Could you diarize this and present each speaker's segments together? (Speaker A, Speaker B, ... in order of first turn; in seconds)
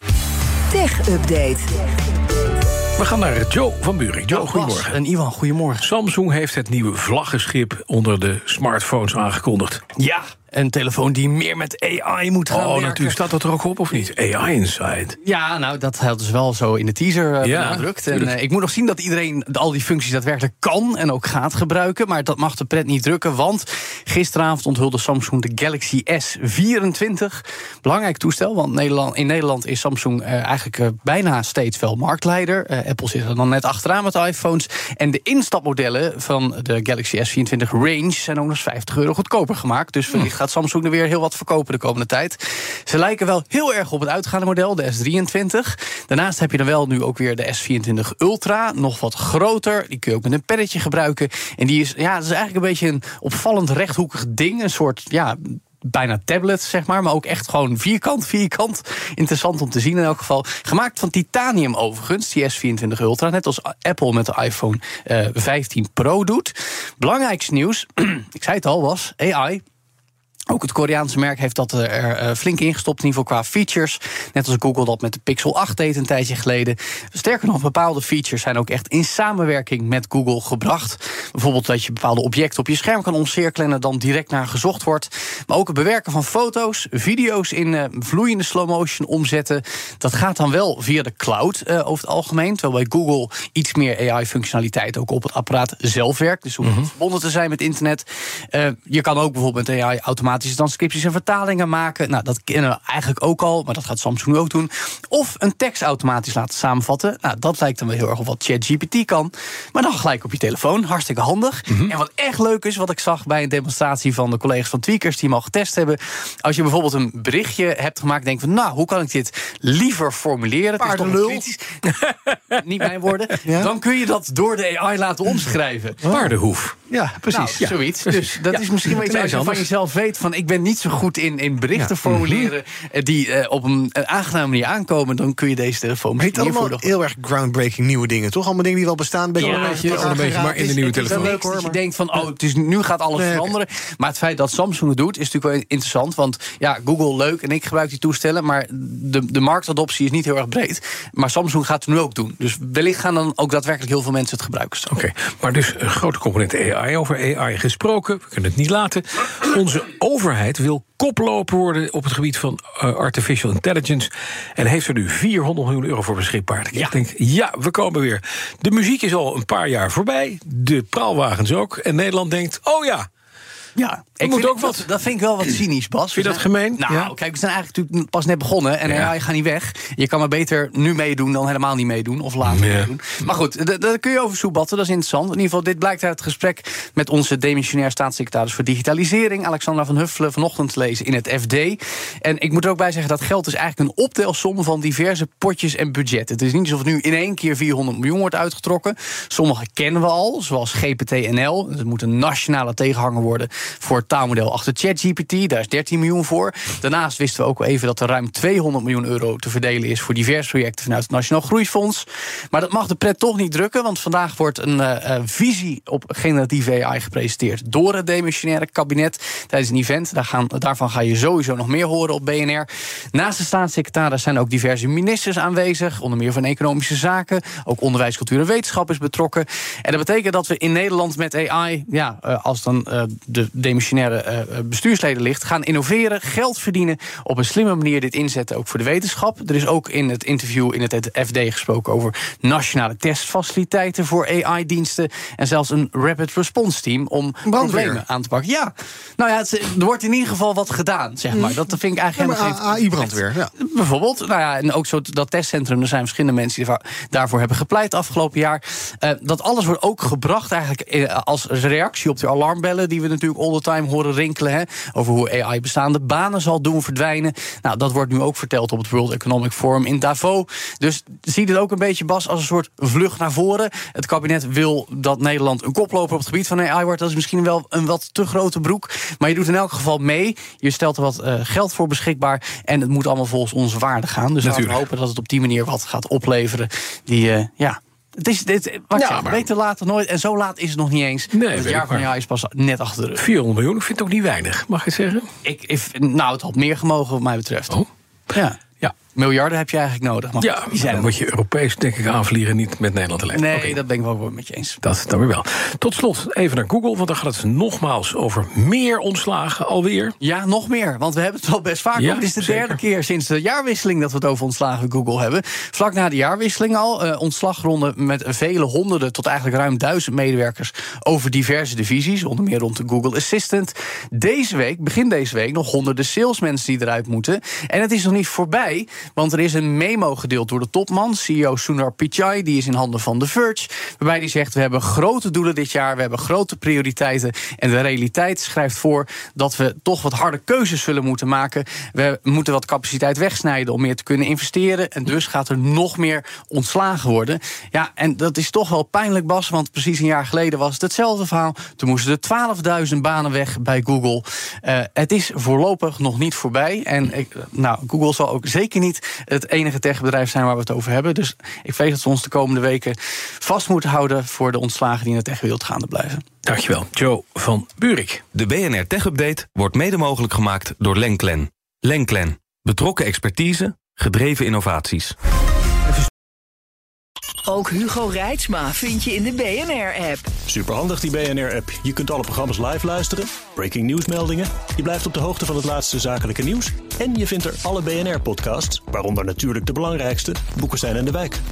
Speaker A: 0.7-1.6, 377.5-380.2
Speaker B: 3.0-5.0, 5.8-9.8, 12.5-15.2, 17.4-18.3, 96.6-96.9, 121.9-122.3, 126.1-129.7, 139.4-141.5, 154.9-173.1, 174.2-174.9, 176.1-177.1, 178.9-179.1, 182.5-182.9, 284.4-284.9, 288.9-289.4, 291.3-292.1, 293.2-295.3, 300.4-303.8, 304.8-310.1, 311.9-312.8, 366.4-368.2
Speaker C: 4.3-5.9, 9.9-13.3, 15.2-69.6, 70.5-121.8, 122.5-126.2, 127.3-136.9, 139.4-140.2, 140.9-154.9, 166.7-167.0, 173.8-293.2, 295.4-301.1, 303.3-304.8, 310.2-366.2
Speaker D: 120.8-121.4, 123.5-123.7, 126.1-126.3, 126.9-127.5, 131.8-132.5, 136.2-141.8, 143.2-143.5, 247.4-248.0, 251.3-251.6, 252.1-253.5
Speaker E: 368.3-375.1
Speaker F: 380.5-391.4